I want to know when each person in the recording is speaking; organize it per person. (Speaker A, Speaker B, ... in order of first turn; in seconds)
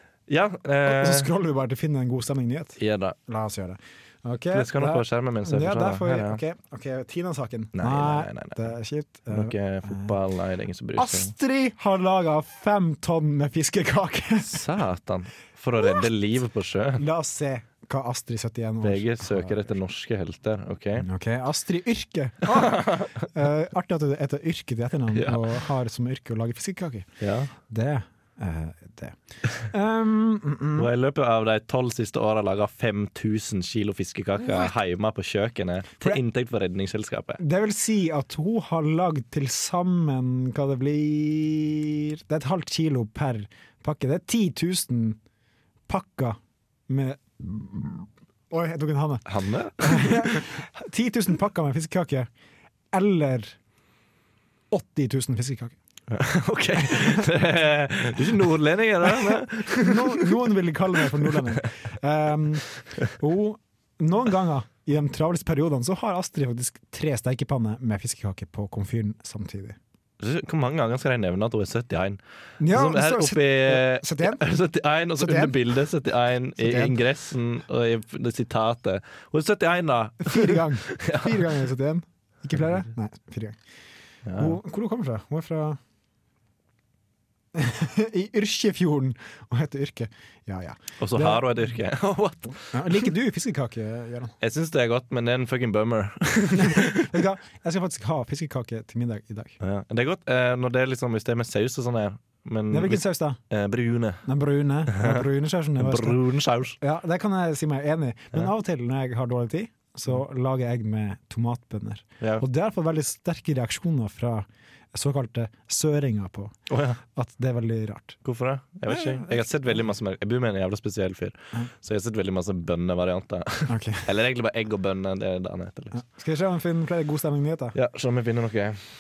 Speaker A: 0.3-1.3, 2.8-3.2, 4.5-6.4, 7.8-8.7, 9.3-11.3, 14.4-17.0, 18.8-21.1, 22.5-23.1, 25.1-25.6, 27.2-27.5, 30.8-37.4, 49.3-50.4, 56.1-60.3, 70.2-81.7, 84.3-84.6, 91.0-93.1, 94.4-97.2, 99.6-104.3, 104.9-105.3, 105.8-106.8, 116.7-117.0, 118.2-126.0, 127.7-128.8
Speaker B: 0.8-10.1, 10.9-14.6, 17.0-19.7, 21.0-27.1, 27.6-30.9, 37.4-45.2, 45.9-49.3, 49.8-52.3, 52.9-53.6, 54.7-55.8, 56.8-57.2, 59.0-69.8, 72.6-74.4, 75.2-75.8, 76.6-77.0, 80.2-83.6, 84.4-85.8, 87.5-91.6, 92.7-94.3, 96.5-99.6, 102.7-103.4, 104.2-116.5, 117.1-118.2, 118.9-119.9, 123.7-124.1, 125.9-127.8